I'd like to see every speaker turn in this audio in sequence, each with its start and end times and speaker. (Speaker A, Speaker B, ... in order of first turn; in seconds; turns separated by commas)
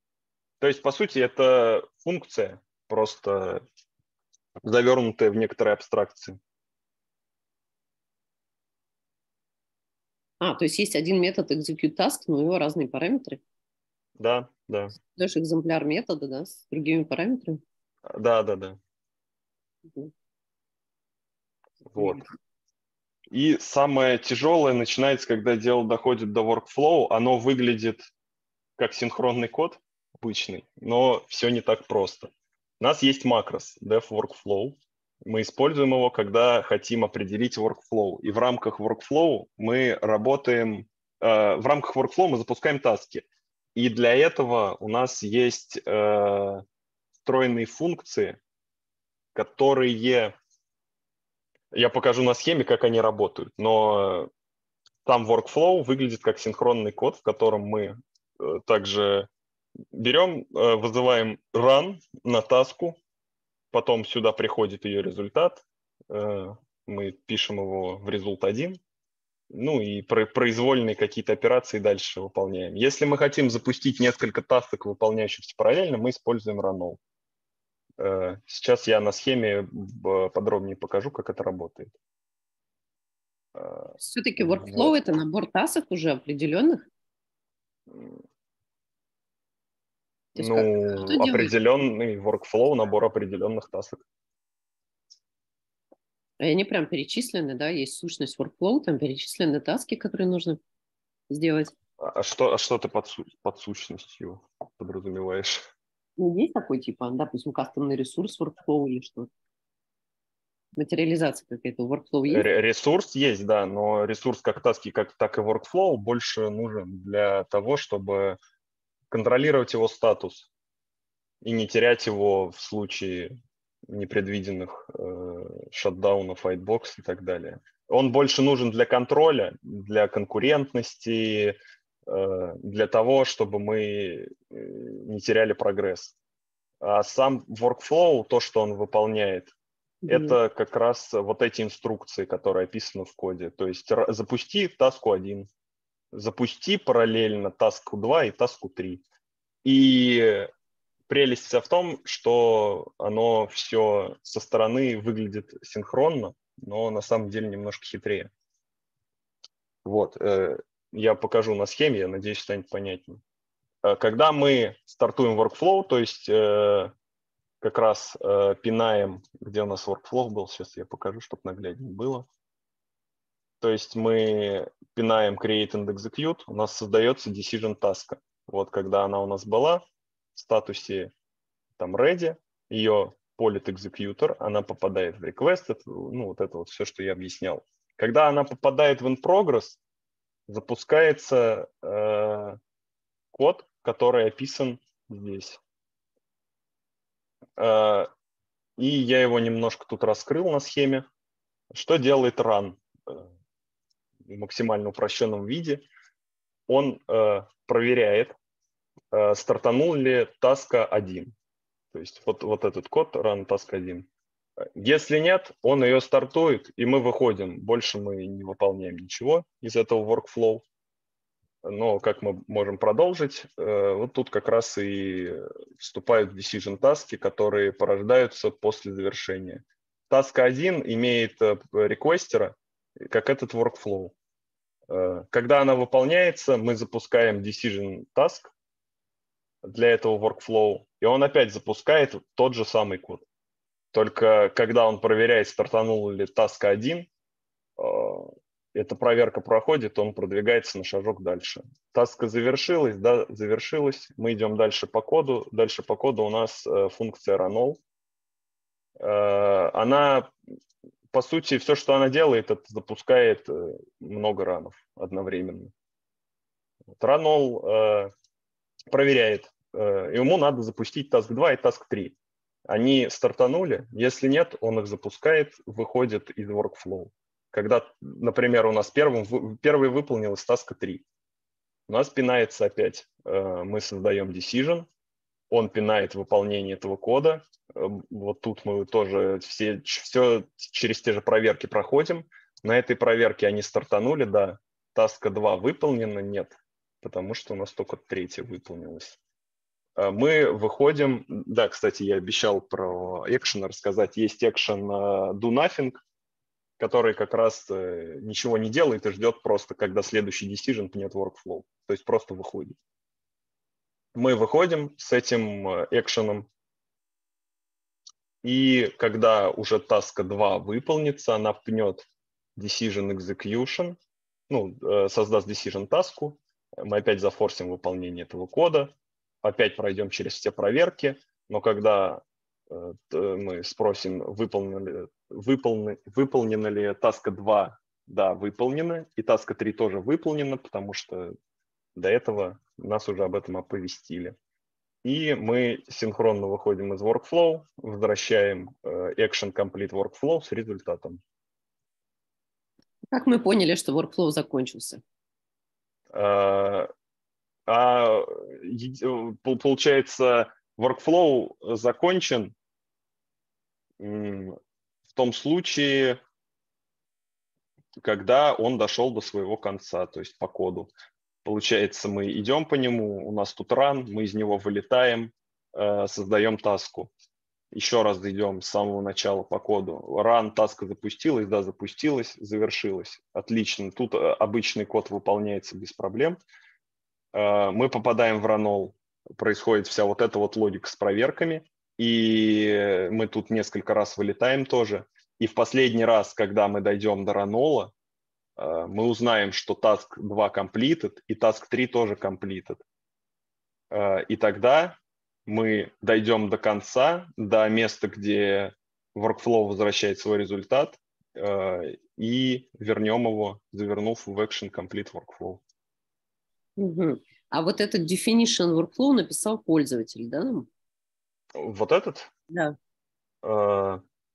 Speaker A: 0.6-3.6, Speaker A: 4.6-6.4, Speaker B: 10.4-13.4, Speaker A: 14.2-14.9, Speaker B: 15.1-17.6, Speaker A: 18.1-18.8, Speaker A: 21.9-22.2, Speaker B: 21.9-22.2, Speaker A: 23.3-28.0, Speaker A: 28.8-46.6, Speaker A: 47.2-48.4, Speaker A: 49.3-50.3, Speaker A: 51.7-54.3, Speaker A: 55.0-59.3, Speaker A: 59.9-63.0, Speaker A: 63.7-68.8, Speaker A: 69.5-77.0, Speaker A: 78.0-81.9, Speaker A: 83.6-84.9, Speaker B: 84.0-86.9, Speaker A: 87.9-88.2, Speaker B: 90.3-91.5, Speaker A: 90.4-94.0, Speaker B: 96.4-100.6, Speaker B: 101.3-101.7, Speaker A: 102.0-105.6, Speaker B: 106.2-109.3, Speaker B: 110.8-112.5, Speaker A: 112.3-118.4, Speaker A: 119.1-120.5, Speaker A: 121.4-123.4, Speaker A: 123.9-136.1, Speaker A: 136.8-139.5, Speaker B: 140.0-140.4, Speaker A: 140.1-145.5, Speaker A: 146.1-149.0, Speaker A: 149.6-150.5, Speaker A: 151.1-158.3, Speaker A: 159.8-163.2, Speaker A: 163.8-166.9, Speaker A: 167.6-172.2, Speaker A: 173.6-179.8, Speaker A: 180.3-181.1, Speaker A: 181.8-189.8, Speaker A: 190.5-192.6, Speaker A: 193.3-195.6, Speaker A: 197.6-198.1, Speaker A: 198.8-201.1, Speaker A: 201.7-203.3, Speaker A: 204.3-205.8, Speaker A: 206.7-208.3, Speaker A: 209.1-211.3, Speaker A: 211.9-214.1, Speaker A: 214.7-220.6, Speaker A: 221.6-234.1, Speaker A: 234.9-238.5, Speaker A: 239.6-243.2, Speaker A: 243.9-247.1, Speaker A: 247.8-257.8, Speaker A: 259.0-260.3, Speaker A: 261.1-265.7, Speaker A: 267.0-268.1, Speaker A: 268.9-272.1, Speaker A: 272.7-281.0, Speaker A: 281.9-284.9, Speaker A: 285.5-299.2, Speaker A: 300.0-306.0, Speaker A: 306.8-312.8, Speaker A: 314.1-316.5, Speaker A: 318.4-324.0, Speaker A: 324.5-328.9, Speaker A: 329.4-341.3, Speaker A: 341.9-344.3, Speaker A: 345.0-351.2, Speaker B: 353.1-355.0, Speaker A: 356.1-356.9, Speaker A: 357.7-362.5, Speaker A: 364.0-364.6, Speaker A: 365.1-366.2, Speaker A: 368.0-370.9, Speaker A: 371.4-377.1, Speaker A: 377.7-386.4, Speaker A: 387.3-397.9, Speaker A: 398.6-402.8, Speaker A: 403.9-415.6, Speaker B: 416.8-420.7, Speaker A: 421.6-422.3, Speaker A: 423.4-424.0